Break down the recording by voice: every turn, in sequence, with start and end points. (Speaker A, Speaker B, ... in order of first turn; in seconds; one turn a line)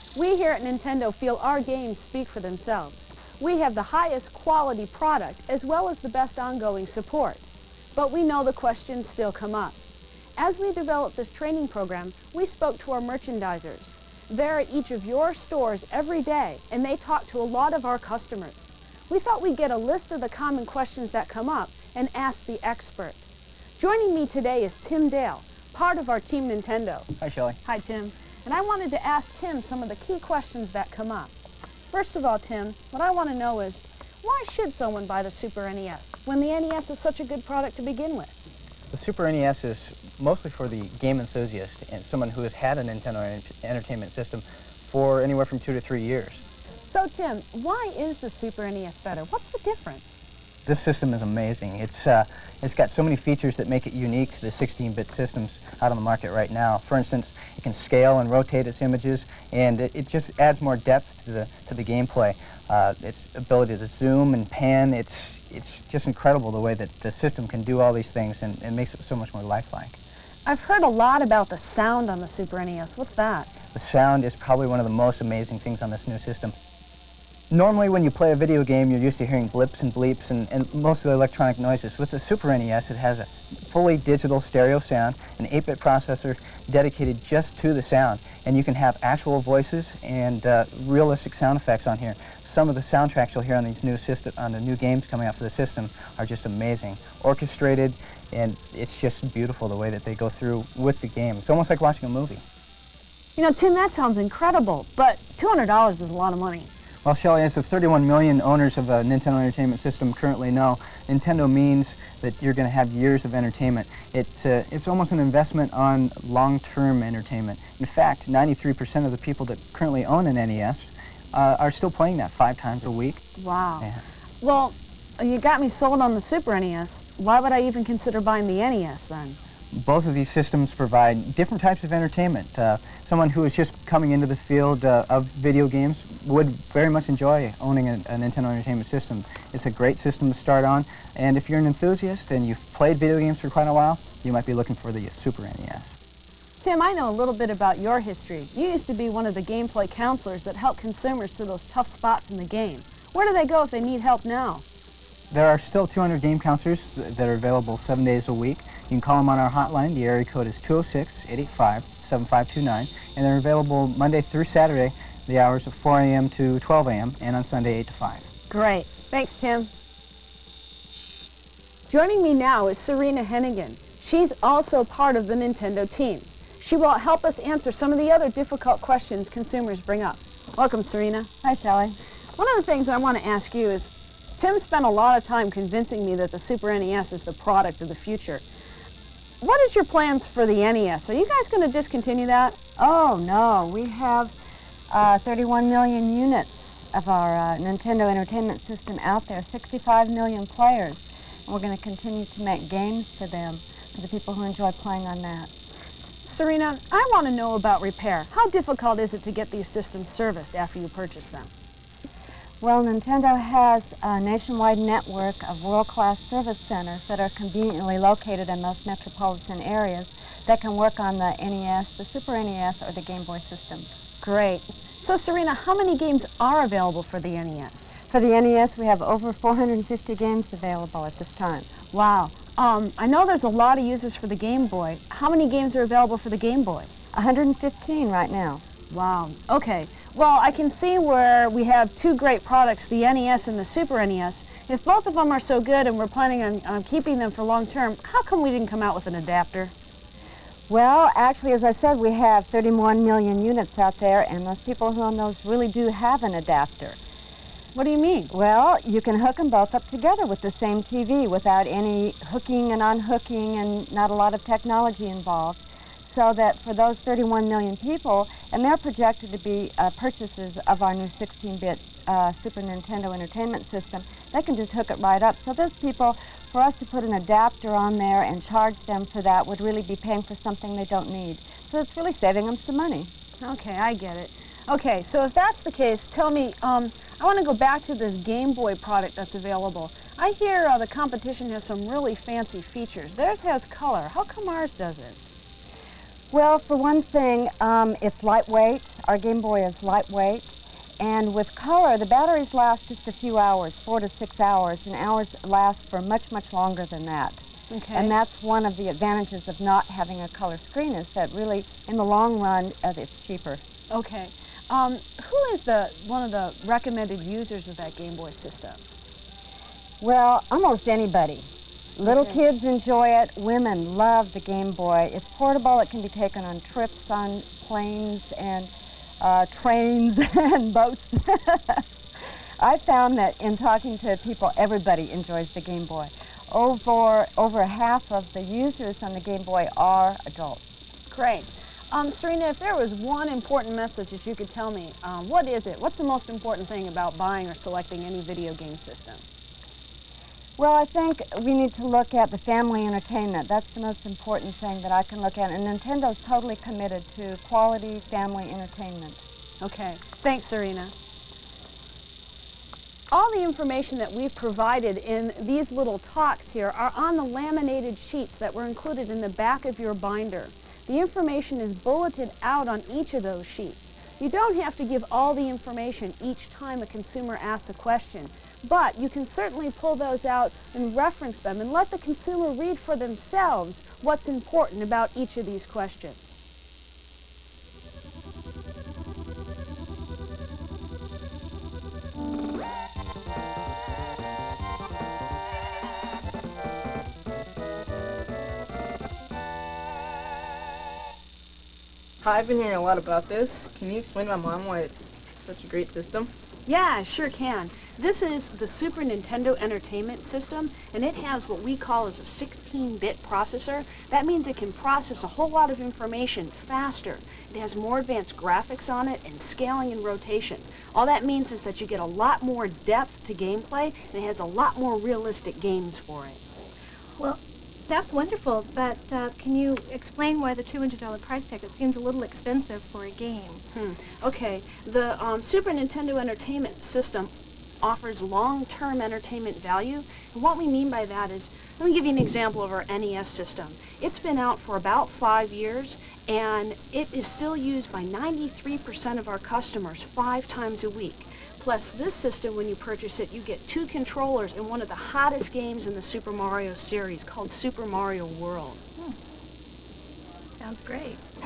Speaker A: 0.1-9.8
Speaker A: 10.4-23.2
Speaker A: 23.8-27.1
Speaker B: 27.2-27.6
Speaker A: 27.6-31.3
Speaker A: 31.9-38.3
Speaker B: 38.9-46.4
Speaker A: 46.8-50.2
Speaker B: 50.6-70.0
Speaker A: 70.4-73.5
Speaker B: 73.7-76.5
Speaker B: 77.5-102.4
Speaker A: 103.4-106.7
Speaker B: 107.0-123.2
Speaker A: 123.4-123.9
Speaker A: 124.4-129.4
Speaker B: 129.7-145.9
Speaker A: 146.6-154.6
Speaker B: 155.3-168.2
Speaker A: 168.5-169.7
Speaker A: 171.9-181.3
Speaker C: 181.4-182.0
Speaker A: 182.4-188.4
Speaker A: 189.4-192.6
Speaker C: 192.8-194.3
Speaker C: 194.9-205.5
Speaker A: 206.2-211.5
Speaker C: 212.6-223.9
Speaker A: 224.2-227.9
Speaker C: 228.1-231.7
Speaker A: 231.9-236.9
Speaker C: 237.1-238.6
Speaker A: 238.9-249.7
Speaker C: 250.7-257.0
Speaker A: 257.7-258.3
Speaker C: 258.3-283.1
Speaker A: 283.4-295.2
Speaker C: 296.3-313.6
Speaker A: 307.7-308.1
Speaker A: 313.9-318.8
Speaker C: 320.0-321.5
Speaker C: 322.0-328.7
Speaker A: 322.0-322.4
Speaker C: 329.2-331.8
Speaker C: 332.6-340.8
Speaker A: 341.1-349.2
Speaker C: 350.6-359.2
Speaker A: 359.6-360.9
Speaker A: 363.1-386.4
Speaker D: 402.2-406.3
Speaker A: 406.6-426.4
Speaker E: 427.2-433.6
Speaker A: 433.7-458.8
Speaker E: 460.6-461.2